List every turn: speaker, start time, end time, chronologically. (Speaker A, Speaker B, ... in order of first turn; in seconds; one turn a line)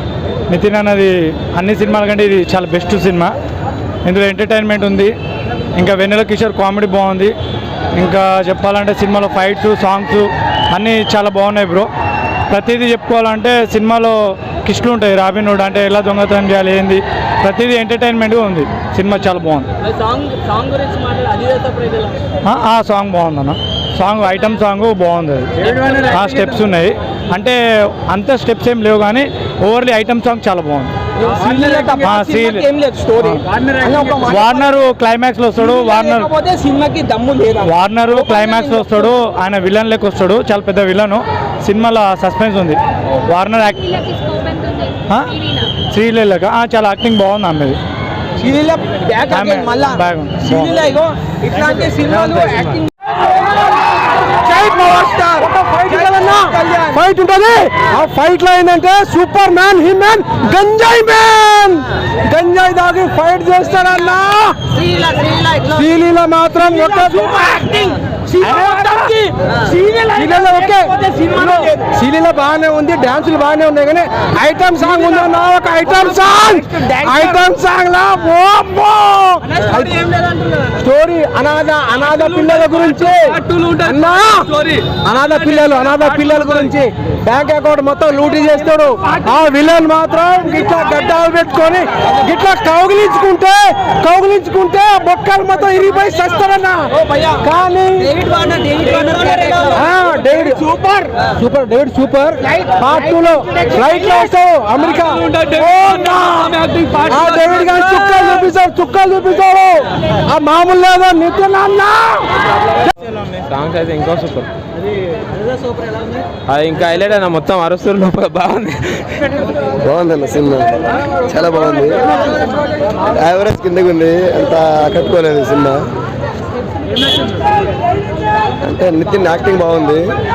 Speaker A: 0.5-3.3
Speaker A: 4.0-5.1
Speaker A: 5.8-7.3
Speaker A: 8.0-11.9
Speaker A: 12.5-19.7
Speaker B: 19.9-22.2
Speaker A: 22.4-30.9
Speaker B: 31.2-34.6
Speaker A: 31.5-33.5
Speaker A: 34.2-36.3
Speaker B: 35.6-39.1
Speaker A: 37.6-44.5
Speaker B: 44.5-44.9
Speaker A: 45.1-47.8
Speaker B: 48.4-52.9
Speaker A: 49.3-50.8
Speaker C: 54.2-64.9
Speaker B: 55.0-57.0
Speaker B: 64.9-65.7
Speaker C: 65.7-69.3
Speaker B: 66.6-71.8
Speaker C: 70.1-80.1
Speaker B: 76.8-77.5
Speaker B: 80.1-80.6
Speaker C: 80.7-98.2
Speaker B: 98.1-99.8
Speaker C: 99.7-112.3
Speaker D: 113.5-114.5
Speaker D: 116.5-119.4
Speaker E: 119.8-120.7
Speaker E: 121.2-122.3
Speaker E: 123.0-125.8
Speaker E: 128.6-130.0